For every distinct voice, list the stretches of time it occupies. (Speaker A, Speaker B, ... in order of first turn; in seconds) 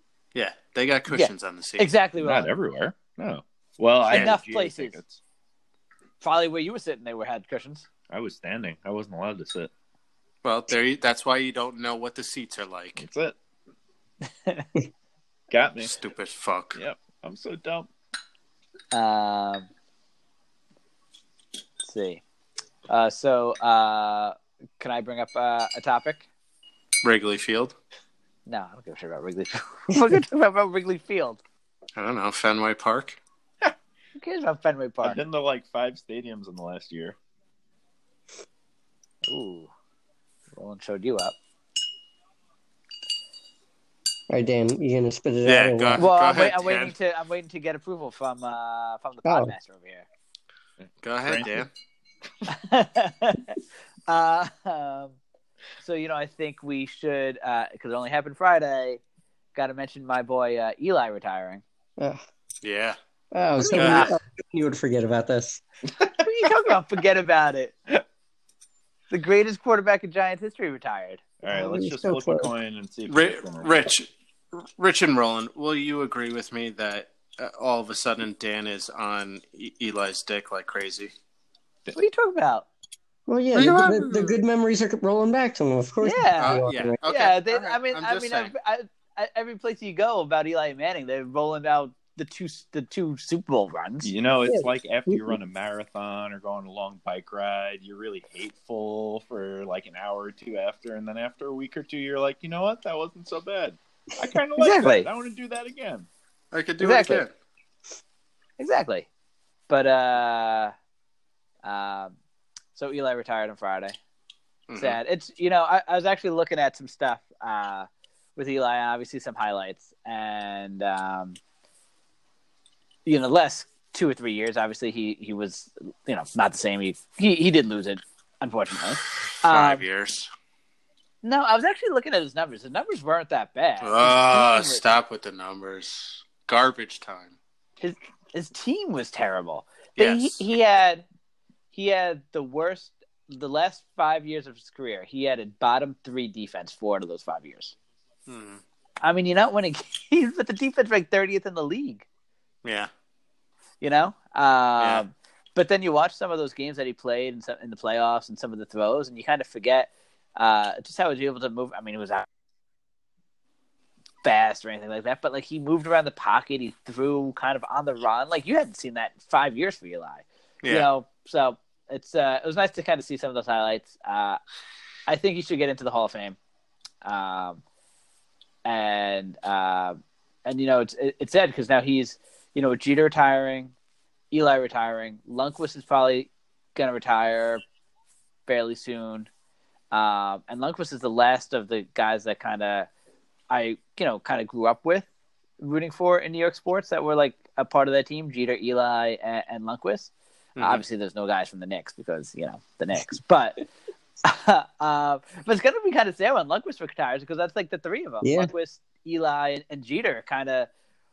Speaker A: 0.3-1.9, 10.4-13.0, 15.8-16.8, 27.0-27.7, 31.9-33.2, 45.4-46.9, 51.0-51.7, 62.6-63.0, 63.7-64.2, 73.1-81.1, 83.5-84.4, 86.4-88.5, 106.5-107.3, 114.7-115.0, 129.4-130.3, 133.8-137.3, 140.0-140.4, 148.3-148.6, 152.6-152.9, 154.8-155.0, 200.6-200.8
Speaker B: 1.1-2.5, 4.1-5.0, 6.2-7.8, 18.9-19.7, 21.8-22.2, 22.9-26.2, 28.4-31.4, 34.2-35.2, 39.3-39.7, 40.5-41.4, 46.0-50.1, 52.5-55.2, 55.8-59.0, 59.5-61.6, 63.7-64.1, 66.2-67.8, 69.1-71.2, 81.9-82.7, 86.0-94.1, 104.6-105.1, 106.8-107.2, 108.6-109.1, 109.7-110.7, 111.6-112.2, 112.7-114.0, 114.8-121.4, 123.0-129.8, 131.2-134.8, 137.8-141.0, 141.7-147.7, 149.0-152.1, 153.8-162.2, 164.2-174.4, 175.1-176.4, 177.0-177.6, 178.6-183.7, 184.3-187.6, 188.5-189.3, 189.9-192.9, 193.5-195.1, 195.6-203.7, 204.2-210.7
Speaker C: 2.2-5.2, 8.1-9.7, 13.0-13.3, 15.5-15.9, 16.7-17.9, 35.0-37.1, 50.8-51.6, 71.4-73.9, 94.0-106.1
Speaker D: 44.3-46.1, 49.2-49.5, 62.0-62.2, 63.3-65.6, 71.5-72.5, 83.3-87.0, 94.5-95.3, 208.2-208.5